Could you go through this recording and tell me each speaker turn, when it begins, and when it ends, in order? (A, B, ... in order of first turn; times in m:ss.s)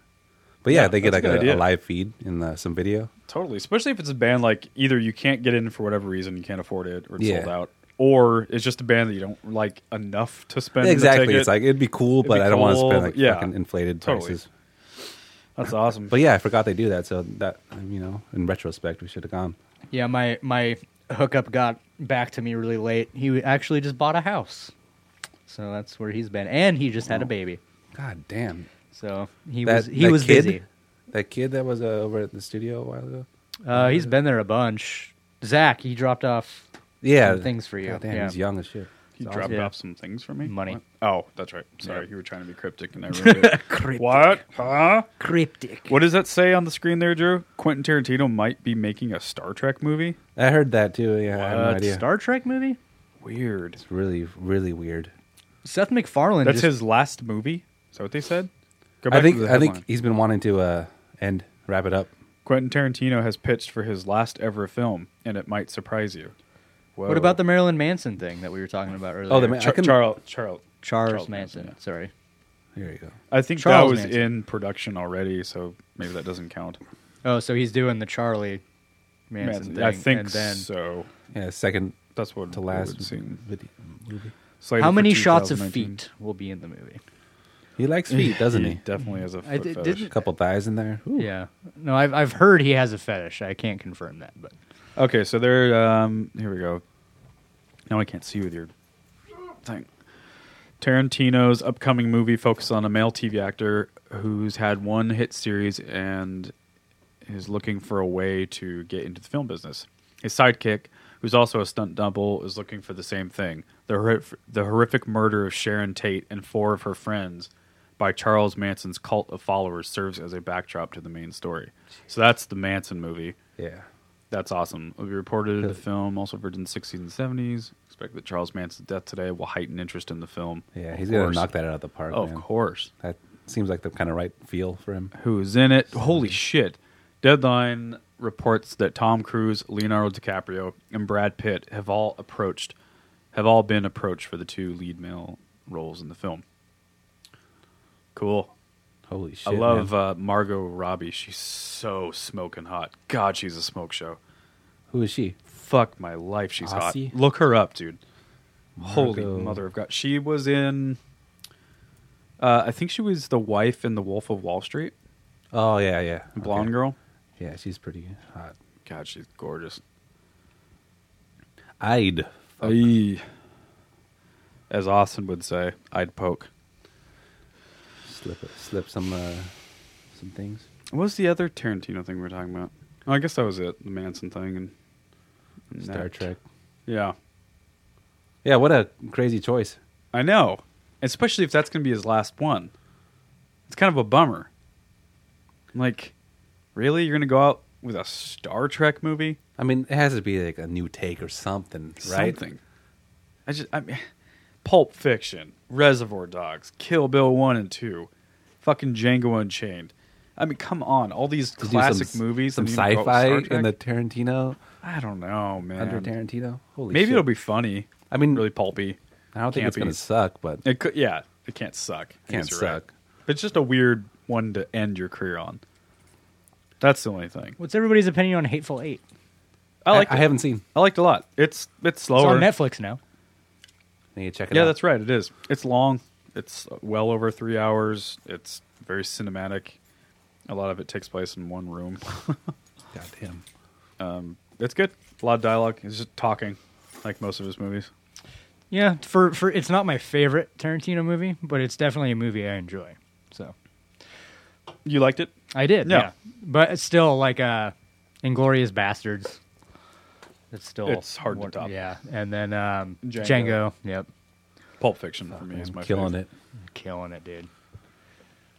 0:00.6-0:03.1 A
0:00.7-0:01.7 B
0:03.3-0:11.6 B
0:07.2-0:07.5 A
0:10.8-0:14.5 A
0:12.2-0:14.4 B
0:15.6-0:16.2 B
0:16.1-0:19.6 A
0:19.9-0:24.7 C
0:25.5-0:27.6 C
0:27.9-0:28.7 A
0:28.9-0:30.6 C
0:29.6-0:30.6 A
0:31.1-0:34.1 A
0:33.6-0:36.6 C
0:37.0-0:39.6 A
0:37.2-0:38.4 C
0:39.2-0:45.1 B
0:39.5-0:39.7 C
0:40.4-0:40.8 C
0:43.1-0:44.4 C
0:45.2-0:46.0 C
0:45.9-0:50.2 B
0:50.4-0:52.0 A
0:51.3-0:51.9 B
0:51.7-0:52.8 C
0:53.2-0:53.8 B
0:53.8-0:55.1 A
0:55.6-0:56.7 C
0:56.4-0:58.5 B
0:59.0-0:59.8 B
0:59.1-1:02.1 A
1:02.4-1:06.3 B
1:07.0-1:07.4 B
1:07.1-1:09.6 C
1:09.3-1:10.1 A
1:09.3-1:11.7 B
1:10.8-1:12.1 C
1:12.7-1:13.1 A
1:13.3-1:16.8 B
1:13.6-1:14.3 C
1:17.2-1:18.6 C
1:19.3-1:20.6 C
1:19.4-1:21.1 B
1:21.3-1:22.0 A
1:22.2-1:23.4 B
1:22.5-1:24.3 A
1:24.6-1:26.0 B
1:24.8-1:27.0 C
1:27.8-1:28.8 A
1:28.1-1:30.1 B
1:29.0-1:30.1 C
1:30.1-1:31.3 A
1:31.2-1:34.5 C
1:35.0-1:36.8 B
1:37.9-1:38.7 B
1:40.8-1:46.5 B
1:47.2-2:03.4 B
2:03.6-2:03.8 A
2:04.3-2:11.5 B
2:10.7-2:12.4 A
2:12.1-2:12.9 B
2:13.0-2:15.1 A
2:15.1-2:22.7 B
2:16.0-2:16.3 A
2:23.3-2:26.4 B
2:28.1-2:28.5 B
2:29.1-2:29.9 A
2:29.4-2:34.2 B
2:34.9-2:35.4 A
2:35.5-2:38.0 B
2:36.6-2:37.1 A
2:38.8-2:39.6 A
2:38.8-2:41.0 B
2:42.4-2:44.9 B
2:45.5-2:46.7 A
2:46.4-2:47.0 B
2:47.4-2:48.5 A
2:48.8-2:49.8 B
2:51.8-2:52.9 A
2:52.6-2:53.2 B
2:54.7-2:56.5 B
2:58.0-2:59.5 A
3:00.1-3:00.6 A
3:00.9-3:04.7 B
3:05.7-3:06.2 B
3:05.8-3:06.4 A
3:06.9-3:07.1 B
3:08.4-3:09.8 A
3:10.1-3:12.7 B
3:13.7-3:14.5 B
3:15.7-3:16.1 B
3:16.7-3:19.4 B
3:19.6-3:22.4 A
3:22.0-3:22.6 B
3:23.5-3:24.0 B
3:24.6-3:28.1 B
3:28.6-3:33.7 B
3:31.6-3:34.6 A
3:34.8-3:36.1 B
3:35.8-3:37.3 A
3:36.9-3:39.0 B
3:38.1-3:38.5 A
3:39.3-3:40.6 A
3:39.5-3:40.0 B
3:40.6-3:45.6 B
3:42.3-3:42.9 A
3:46.8-3:47.6 B
3:47.6-3:49.0 C
3:49.8-3:52.5 B
3:49.9-3:50.6 A
3:52.1-3:53.0 C
3:54.1-3:54.8 A
3:54.5-3:59.8 B
4:00.5-4:02.4 B
4:02.9-4:03.4 A
4:04.0-4:07.9 B
4:08.7-4:13.5 C
4:14.8-4:15.3 B
4:15.5-4:19.4 C
4:15.8-4:16.1 B
4:20.5-4:24.1 C
4:20.8-4:21.7 B
4:23.0-4:23.6 B
4:24.8-4:26.1 B
4:25.3-4:26.3 A
4:26.7-4:27.5 C